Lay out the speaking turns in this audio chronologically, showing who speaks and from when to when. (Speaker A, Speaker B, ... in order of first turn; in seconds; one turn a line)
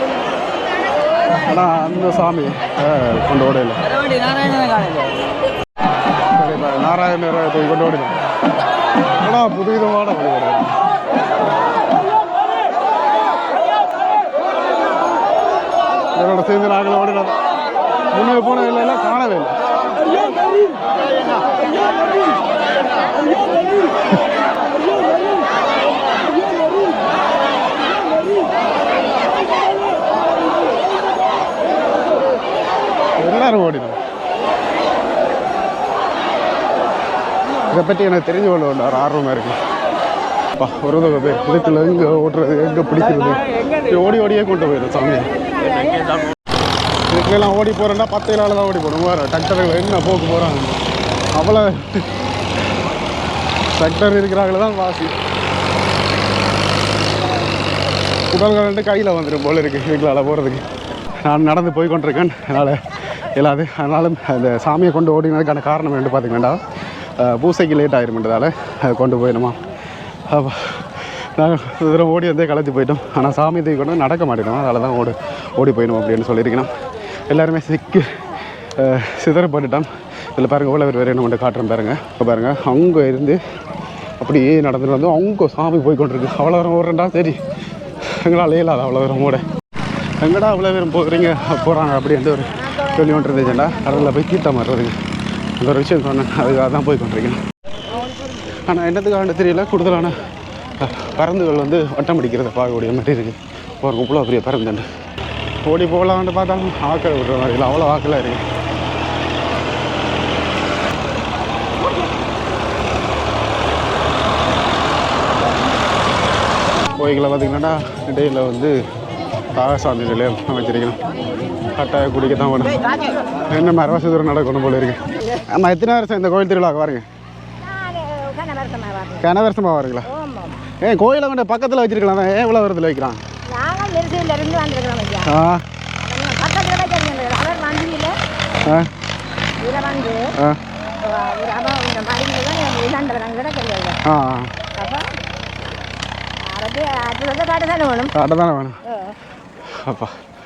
Speaker A: 1.5-3.8
Speaker A: 6.3-8.2
Speaker A: 9.2-10.8
Speaker A: 16.1-17.3
Speaker A: 18.1-19.5
Speaker A: 33.2-34.0
Speaker A: 37.7-39.6
Speaker A: 40.6-45.3
Speaker A: 47.1-50.8
Speaker A: 51.3-52.0
Speaker A: 53.7-55.1
Speaker A: 58.3-60.6
Speaker A: 61.2-62.8
Speaker A: 63.4-66.6
Speaker A: 67.2-69.6
Speaker A: 70.3-76.7
Speaker A: 77.3-78.2
Speaker A: 78.8-83.4
Speaker A: 84.2-87.4
Speaker A: 88.1-89.4
Speaker A: 90.2-95.0
Speaker A: 95.6-97.4
Speaker A: 98.7-100.1
Speaker A: 100.8-104.9
Speaker A: 105.6-108.4
Speaker A: 116.9-118.8
Speaker A: 119.5-121.0
Speaker A: 121.8-122.9
Speaker A: 123.5-127.0
Speaker B: 127.6-129.3
Speaker A: 129.2-130.1
Speaker B: 130.1-130.6
Speaker A: 130.8-133.2
Speaker B: 133.5-135.3
Speaker A: 135.2-135.6
Speaker B: 136.0-138.1
Speaker A: 138.6-138.9
Speaker B: 139.6-140.3
Speaker B: 141.0-144.0
Speaker A: 144.0-144.5
Speaker B: 144.8-145.1
Speaker B: 146.4-148.1
Speaker A: 148.1-148.8
Speaker B: 148.9-149.1
Speaker A: 149.7-150.2